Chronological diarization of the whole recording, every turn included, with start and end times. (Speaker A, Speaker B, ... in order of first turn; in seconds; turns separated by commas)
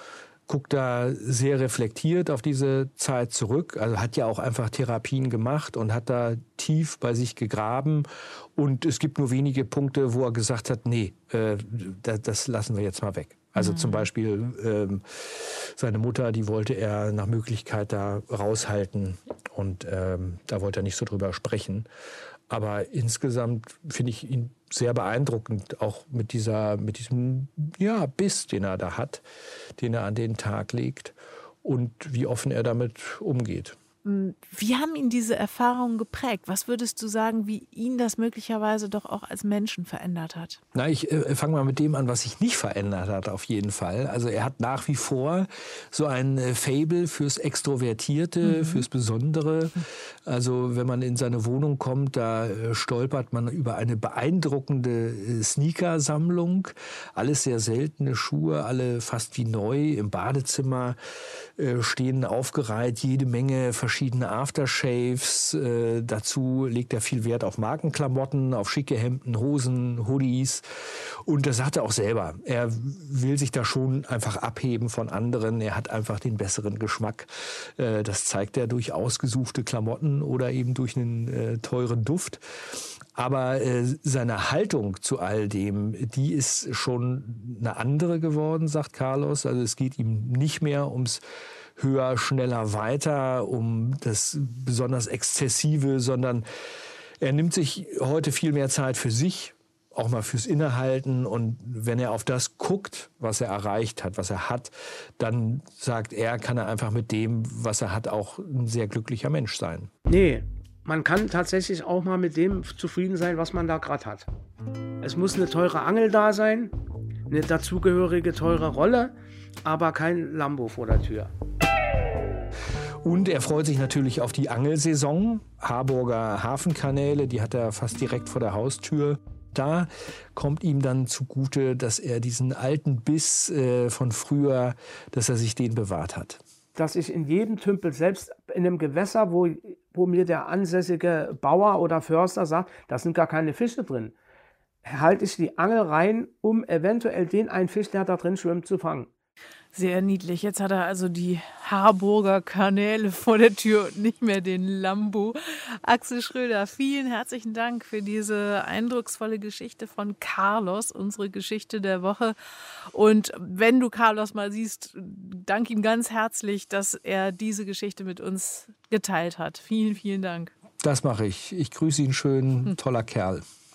Speaker A: 0.5-21.9, Speaker B: 13.6-14.1, Speaker A: 22.5-29.2, Speaker A: 29.8-33.8, Speaker B: 34.0-40.6, Speaker A: 40.7-61.0, Speaker B: 48.4-48.8, Speaker A: 61.6-70.6, Speaker A: 71.2-91.2, Speaker A: 91.8-96.4, Speaker A: 97.2-109.9, Speaker C: 110.1-114.3, Speaker C: 115.0-116.7, Speaker C: 117.3-119.1, Speaker C: 119.6-121.3, Speaker A: 123.0-136.4, Speaker C: 136.8-144.1, Speaker C: 144.8-149.1, Speaker B: 149.7-162.3, Speaker B: 162.9-170.5, Speaker A: 170.8-173.4